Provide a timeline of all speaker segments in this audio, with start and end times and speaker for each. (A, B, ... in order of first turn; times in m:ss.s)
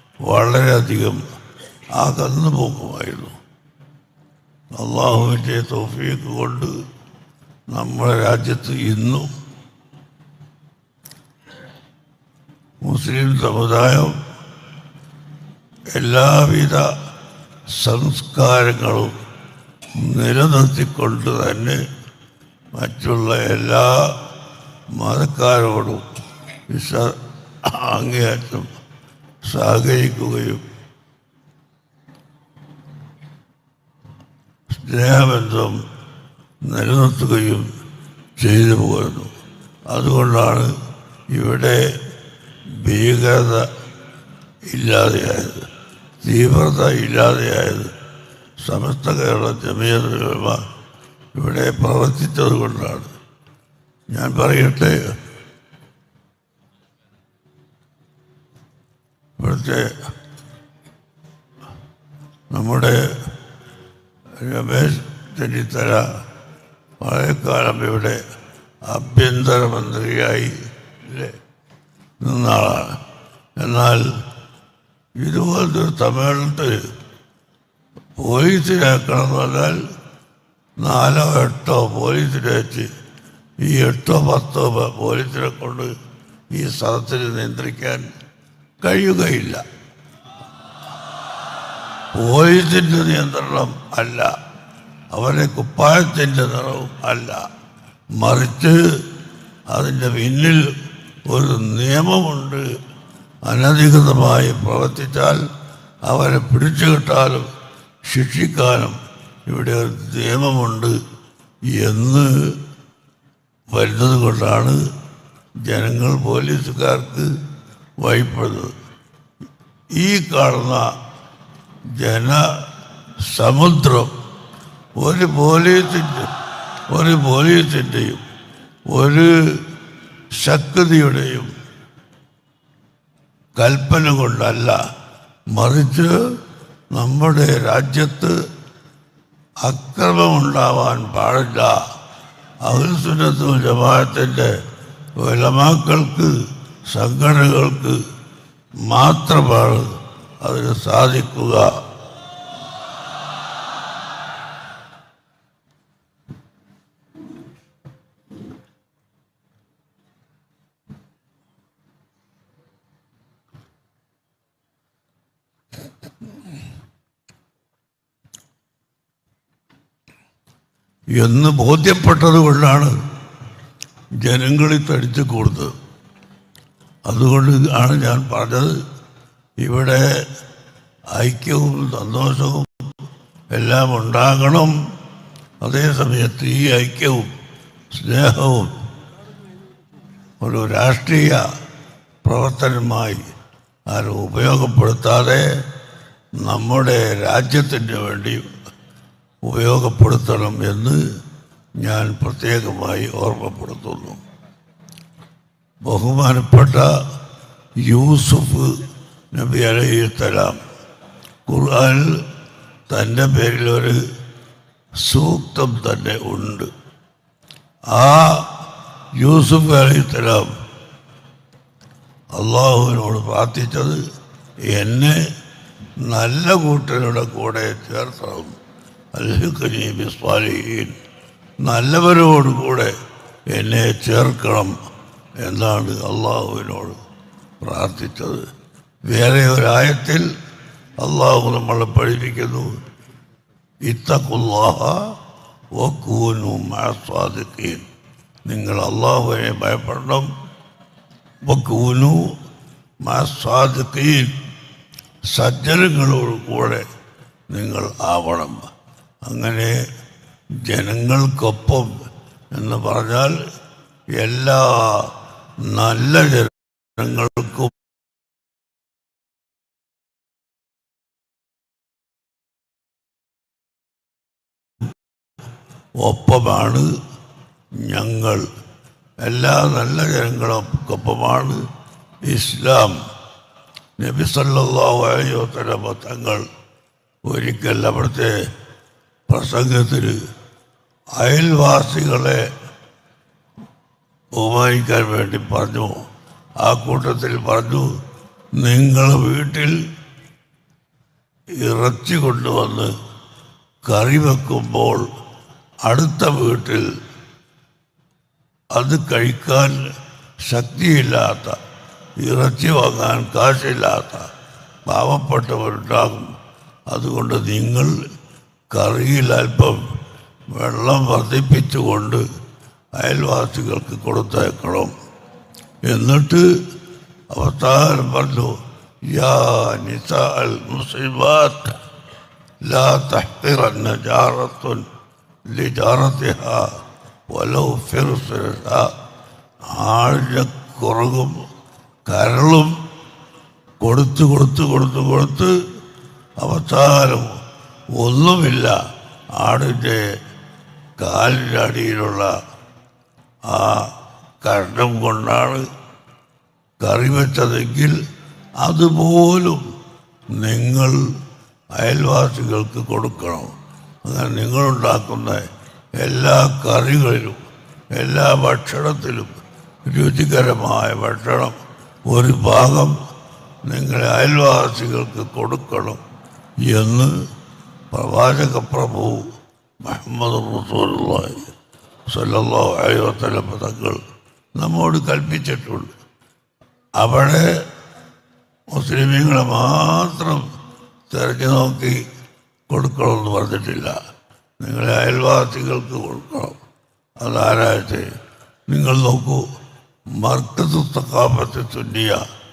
0:00.2-0:01.2 A
0:01.9-0:03.4 A
0:04.7-0:06.7 A
0:07.7-0:09.3 A
0:12.8-0:14.2 A
0:15.9-0:16.9 A
0:17.7-0:19.2 A
0:20.0-0:21.8 A
0:22.7-0:24.2 A
0:24.9-0:26.0 A
0:26.7-0:28.7 A
0:29.4-0:30.6 A
0:34.7-0:35.8 A
0:36.6-0:37.7 A
0:38.4-0:39.3 A
0:39.9-0:40.8 A
0:41.3-0:42.0 A
0:42.7-0:43.7 A
0:44.7-0:45.7 A
0:46.2-0:47.9 A
0:48.6-0:50.6 A
0:51.3-0:53.1 A
0:54.1-0:55.1 A
0:59.4-0:59.9 A
1:02.5-1:03.3 A
1:04.4-1:06.2 A
1:07.0-1:08.2 A
1:08.8-1:11.4 A
1:12.2-1:13.0 A
1:13.6-1:14.1 A
1:15.2-1:16.9 A
1:18.2-1:19.8 A
1:20.8-1:22.9 A
1:23.6-1:25.9 A
1:26.5-1:28.0 A
1:28.8-1:29.6 A
1:32.1-1:34.4 A
1:35.1-1:37.5 A
1:38.2-1:39.0 A
1:39.7-1:40.7 A
1:41.3-1:42.6 A
1:43.4-1:45.4 A
1:46.0-1:47.5 A
1:48.1-1:51.0 A
1:51.7-1:52.6 A
1:53.7-1:54.8 A
1:55.6-1:57.3 A
1:58.0-1:58.7 A
1:59.9-2:00.9 A
2:01.9-2:02.5 A
2:03.2-2:04.1 A
2:05.0-2:06.3 A
2:06.9-2:08.2 A
2:08.9-2:09.7 A
2:10.3-2:11.5 A
2:13.6-2:14.8 A
2:15.5-2:16.2 A
2:16.9-2:18.4 A
2:19.6-2:21.8 A
2:22.6-2:24.6 A
2:25.2-2:26.3 A
2:26.9-2:28.0 A
2:28.8-2:31.8 A
2:51.1-2:53.0 A
2:54.2-2:55.7 A
2:57.1-2:58.8 A
2:59.6-3:00.1 A
3:01.1-3:02.9 A
3:03.5-3:04.8 A
3:05.6-3:07.3 A
3:07.9-3:08.8 A
3:10.4-3:11.5 A
3:12.2-3:13.3 A
3:13.9-3:15.6 A
3:16.4-3:18.5 A
3:19.4-3:21.0 A
3:21.8-3:24.2 A
3:25.8-3:27.0 A
3:27.8-3:30.6 A
3:31.5-3:32.2 A
3:32.9-3:34.0 A
3:35.0-3:36.7 A
3:37.9-3:40.5 A
3:42.3-3:44.0 A
3:44.7-3:45.2 A
3:46.0-3:48.6 A
3:49.1-3:51.0 A
3:51.6-3:53.0 A
3:53.5-3:54.8 A
3:55.4-3:57.0 A
3:57.6-3:58.5 A
3:59.0-4:00.3 A
4:01.0-4:02.8 A
4:03.8-4:05.2 A
4:05.8-4:07.9 A
4:08.5-4:10.3 A
4:11.5-4:12.3 A
4:13.0-4:14.4 A
4:15.3-4:16.8 A
4:17.5-4:18.7 A
4:19.2-4:19.8 A
4:20.6-4:21.9 A
4:22.5-4:23.4 A
4:24.1-4:27.8 A
4:36.0-4:36.9 A
4:37.8-4:38.4 A
4:39.2-4:41.6 A
4:42.2-4:43.0 A
4:44.0-4:46.5 A
4:47.3-4:48.3 A
4:49.3-4:50.2 A
4:51.2-4:52.4 A
4:54.4-4:56.0 A
4:56.6-4:57.9 A
4:58.6-4:59.8 A
5:01.6-5:02.9 A
5:03.9-5:05.0 A
5:05.9-5:06.9 A
5:08.8-5:09.8 A
5:10.4-5:11.6 A
5:12.2-5:14.3 A
5:14.9-5:16.4 A
5:16.9-5:18.0 A
5:18.7-5:19.9 A
5:20.5-5:22.2 A
5:23.0-5:24.9 A
5:25.8-5:26.4 A
5:27.3-5:28.6 A
5:29.1-5:31.8 A
5:32.6-5:34.9 A
5:35.5-5:36.7 A
5:37.3-5:38.9 A
5:39.6-5:41.4 A
5:42.0-5:42.7 A
5:43.8-5:45.5 A
5:46.4-5:47.4 A
5:47.9-5:48.8 A
5:49.4-5:50.0 A
5:51.0-5:52.3 A
5:53.5-5:53.9 A
5:54.4-5:55.7 A
5:56.8-5:58.0 A
5:58.6-5:59.6 A
6:00.3-6:01.0 A
6:01.7-6:03.5 A
6:04.0-6:05.5 A
6:06.0-6:13.0 A
6:13.6-6:16.0 A
6:16.6-6:17.1 A
6:17.9-6:21.5 A
6:22.1-6:24.0 A
6:24.6-6:25.9 A
6:27.0-6:27.5 A
6:28.7-6:30.5 A
6:31.1-6:32.0 A
6:32.7-6:34.0 A
6:34.6-6:36.6 A
6:37.2-6:38.1 A
6:38.7-6:39.4 A
6:40.1-6:42.2 A